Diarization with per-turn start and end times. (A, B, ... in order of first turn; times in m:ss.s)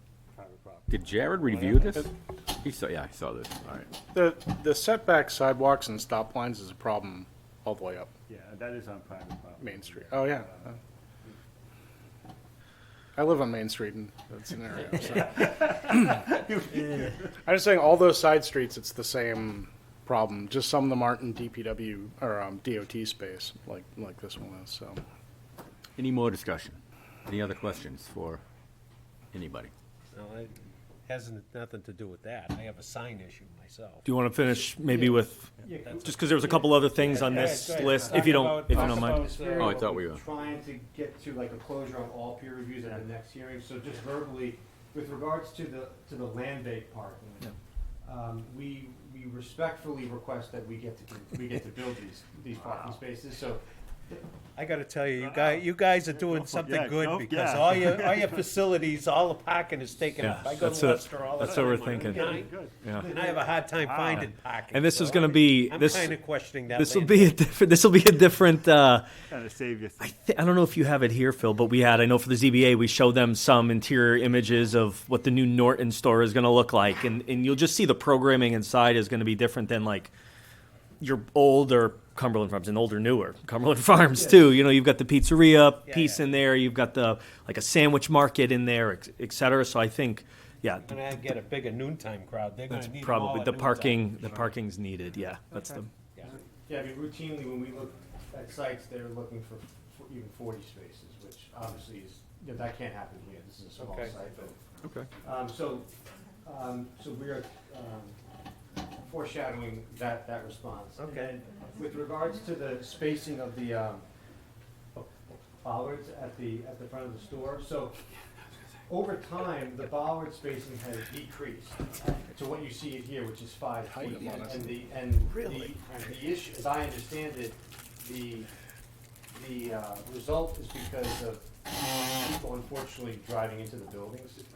0:00.4-0:02.0 A
0:00.9-0:03.9 B
0:04.1-0:08.1 C
0:08.3-0:10.8 A
0:09.6-0:10.5 C
0:13.2-0:16.2 C
0:15.4-0:15.6 A
0:17.4-0:25.0 C
0:26.0-0:28.4 B
0:29.3-0:29.7 B
0:30.1-0:30.5 D
0:31.1-0:34.1 D
0:34.0-0:39.3 E
0:35.6-0:47.5 F
0:35.8-0:36.2 D
0:37.0-0:39.7 D
0:39.5-0:40.2 B
0:48.0-0:54.3 F
0:52.5-0:53.0 A
0:54.6-1:07.4 D
0:55.2-0:58.5 A
1:00.2-1:02.2 E
1:01.3-1:04.4 A
1:02.8-1:03.1 E
1:04.2-1:06.2 E
1:06.7-1:09.1 E
1:09.3-1:10.1 A
1:10.0-1:20.1 E
1:21.0-1:30.9 E
1:25.8-1:26.3 D
1:30.8-1:34.1 D
1:32.7-1:35.9 E
1:36.7-1:44.6 F
1:43.8-1:44.2 D
1:44.8-1:45.1 B
1:45.2-1:45.9 F
1:46.4-1:48.2 F
1:49.0-1:54.0 F
1:51.0-1:51.3 D
1:54.9-1:58.0 F
1:58.9-2:08.5 F
2:03.8-2:04.7 C
2:09.3-2:11.5 F
2:12.1-2:14.4 F